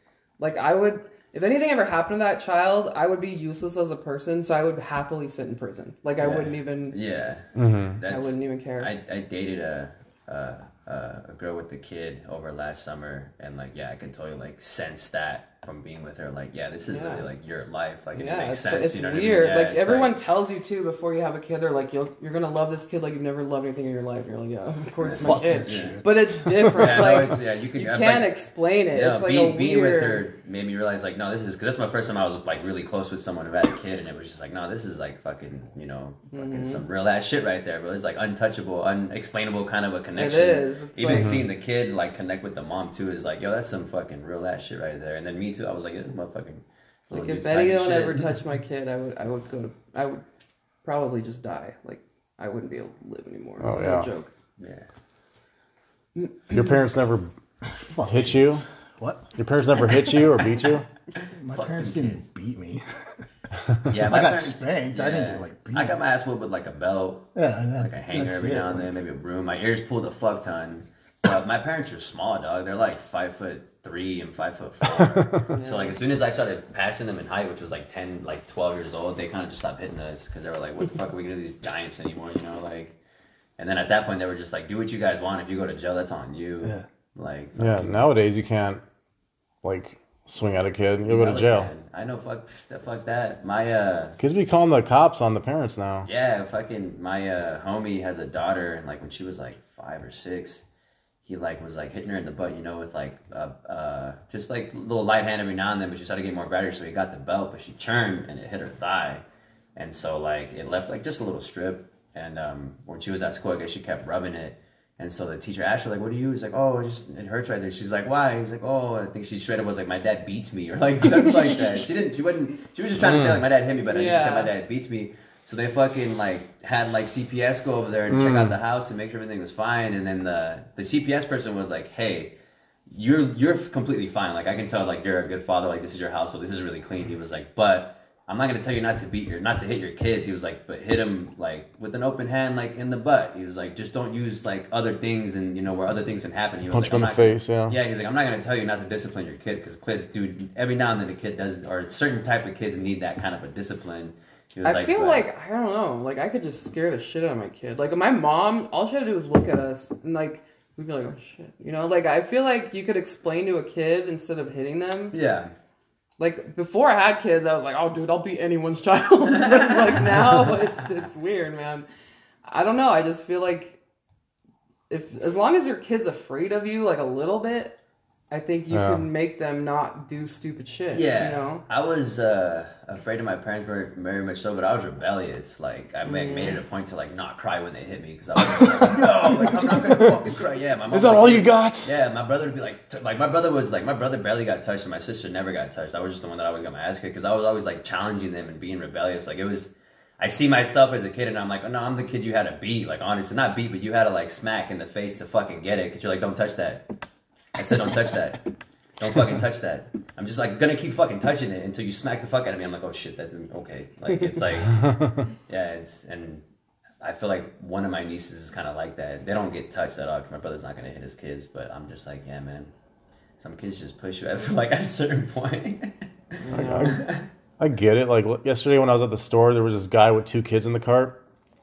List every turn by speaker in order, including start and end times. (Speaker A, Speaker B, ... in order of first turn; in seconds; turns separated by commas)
Speaker A: 0.4-7.0, Speaker B: 6.2-7.5, Speaker C: 7.5-8.0, Speaker B: 8.0-20.2, Speaker A: 8.1-8.9, Speaker A: 16.9-17.3, Speaker A: 18.1-30.2, Speaker B: 25.0-26.0, Speaker D: 25.2-27.1, Speaker B: 26.6-28.3, Speaker B: 28.9-48.3, Speaker A: 36.3-36.8, Speaker A: 40.1-41.4, Speaker C: 41.1-41.4, Speaker A: 47.1-50.2, Speaker A: 50.8-54.3, Speaker C: 53.6-54.1, Speaker B: 54.6-54.9, Speaker C: 56.5-57.3, Speaker D: 57.6-59.3, Speaker C: 58.0-58.6, Speaker C: 59.4-60.9, Speaker D: 61.3-62.8, Speaker B: 61.5-62.2, Speaker B: 63.9-83.0, Speaker D: 63.9-66.0, Speaker D: 67.3-69.0, Speaker C: 75.0-75.4, Speaker A: 75.5-76.0, Speaker B: 83.6-88.0, Speaker C: 87.6-88.8, Speaker C: 89.6-91.7, Speaker B: 91.1-94.2, Speaker C: 94.2-96.1, Speaker B: 96.0-100.6, Speaker B: 101.2-109.2, Speaker B: 109.8-132.4, Speaker C: 123.0-123.4, Speaker A: 123.9-124.5, Speaker C: 128.1-128.5, Speaker B: 132.9-155.3, Speaker C: 146.7-147.8, Speaker A: 154.6-165.2, Speaker B: 165.1-165.5, Speaker A: 166.2-171.9, Speaker B: 169.5-169.9, Speaker A: 172.5-173.8, Speaker A: 174.9-177.8, Speaker A: 178.3-181.6, Speaker C: 178.7-179.1, Speaker B: 180.9-206.8, Speaker A: 186.1-186.6, Speaker C: 190.9-191.9, Speaker B: 207.6-208.4, Speaker B: 209.0-214.9, Speaker C: 214.8-215.2, Speaker B: 215.5-216.4, Speaker B: 217.0-222.7, Speaker B: 223.4-227.3, Speaker A: 226.4-227.0, Speaker C: 226.5-231.2